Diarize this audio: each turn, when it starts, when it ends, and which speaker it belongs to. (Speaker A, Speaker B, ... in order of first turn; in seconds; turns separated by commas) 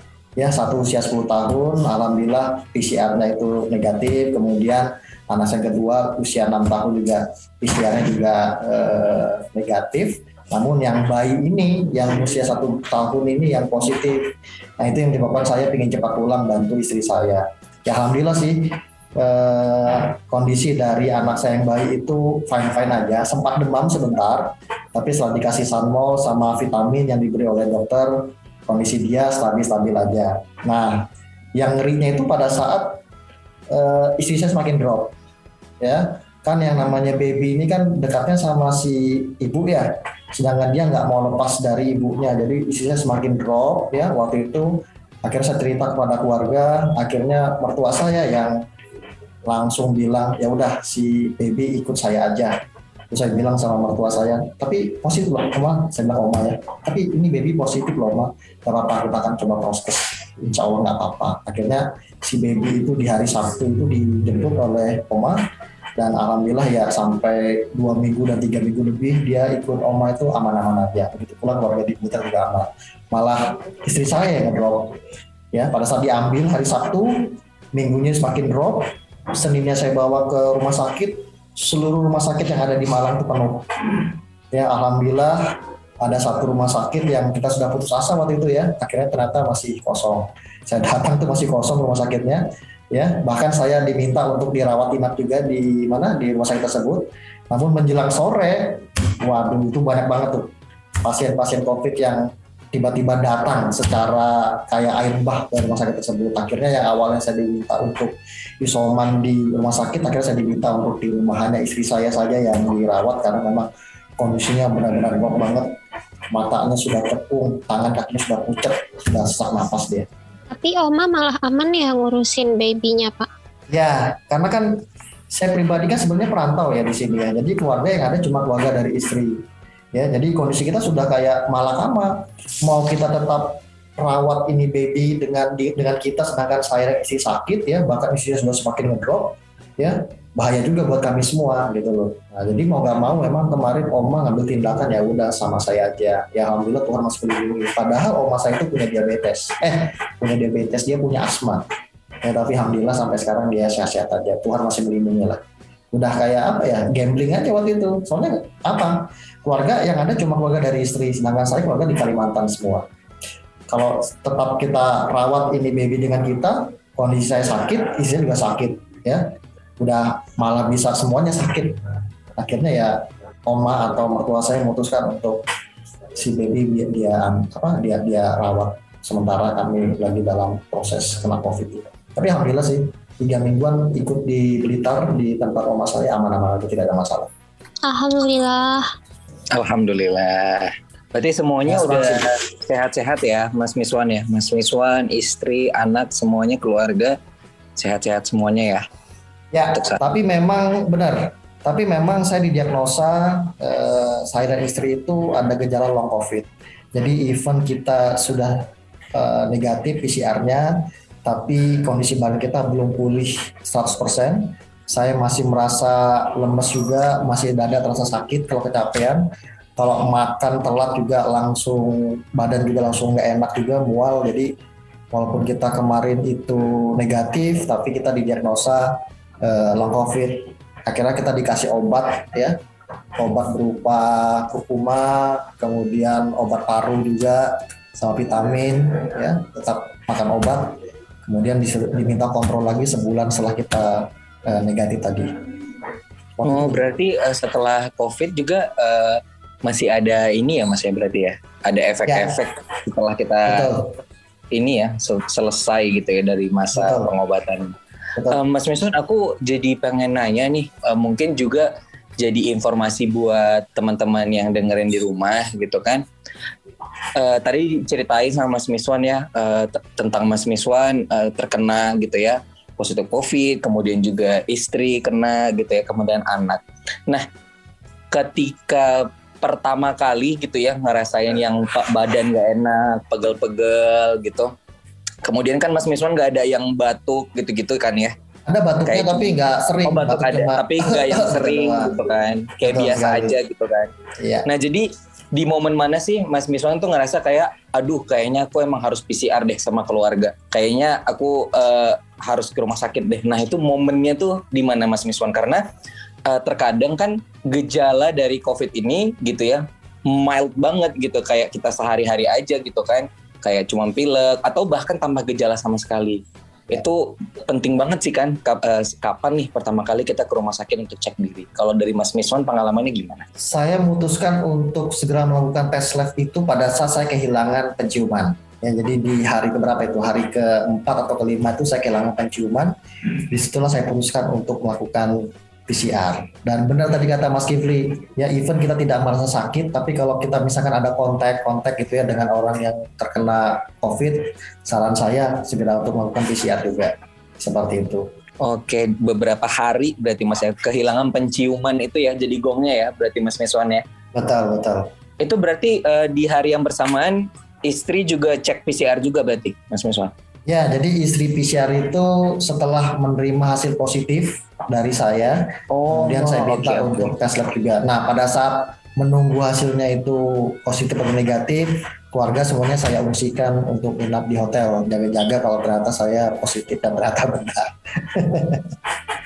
Speaker A: 0.4-33.0, Speaker A: 33.7-35.1, Speaker A: 35.8-48.6, Speaker A: 49.5-52.6, Speaker A: 53.1-65.4, Speaker A: 66.0-75.0, Speaker A: 75.5-85.4, Speaker A: 86.0-100.5, Speaker A: 101.0-115.7, Speaker A: 116.3-120.1, Speaker B: 120.5-123.3, Speaker A: 123.7-151.7, Speaker A: 152.2-155.4, Speaker A: 155.9-162.9, Speaker A: 163.7-169.2, Speaker A: 169.8-175.4, Speaker A: 176.1-187.3, Speaker B: 187.8-188.9, Speaker C: 189.5-197.2, Speaker A: 191.7-192.3, Speaker C: 197.8-198.9, Speaker A: 199.5-219.2, Speaker A: 219.8-224.5, Speaker A: 225.1-232.6, Speaker A: 233.2-245.3, Speaker A: 246.4-246.9, Speaker C: 246.4-253.7, Speaker A: 252.1-252.4, Speaker A: 253.5-253.9, Speaker C: 254.5-257.8, Speaker A: 256.8-257.1, Speaker C: 258.3-266.1, Speaker C: 267.1-277.3, Speaker C: 278.1-284.5, Speaker C: 285.2-288.1, Speaker A: 288.5-292.1, Speaker C: 288.9-293.9, Speaker A: 292.6-293.4, Speaker A: 294.2-294.5, Speaker C: 294.5-305.6, Speaker C: 306.3-323.2, Speaker A: 323.4-332.8, Speaker A: 333.3-348.1, Speaker C: 348.4-353.8, Speaker A: 354.1-354.9, Speaker C: 355.2-360.1, Speaker A: 360.5-378.8, Speaker C: 365.7-367.1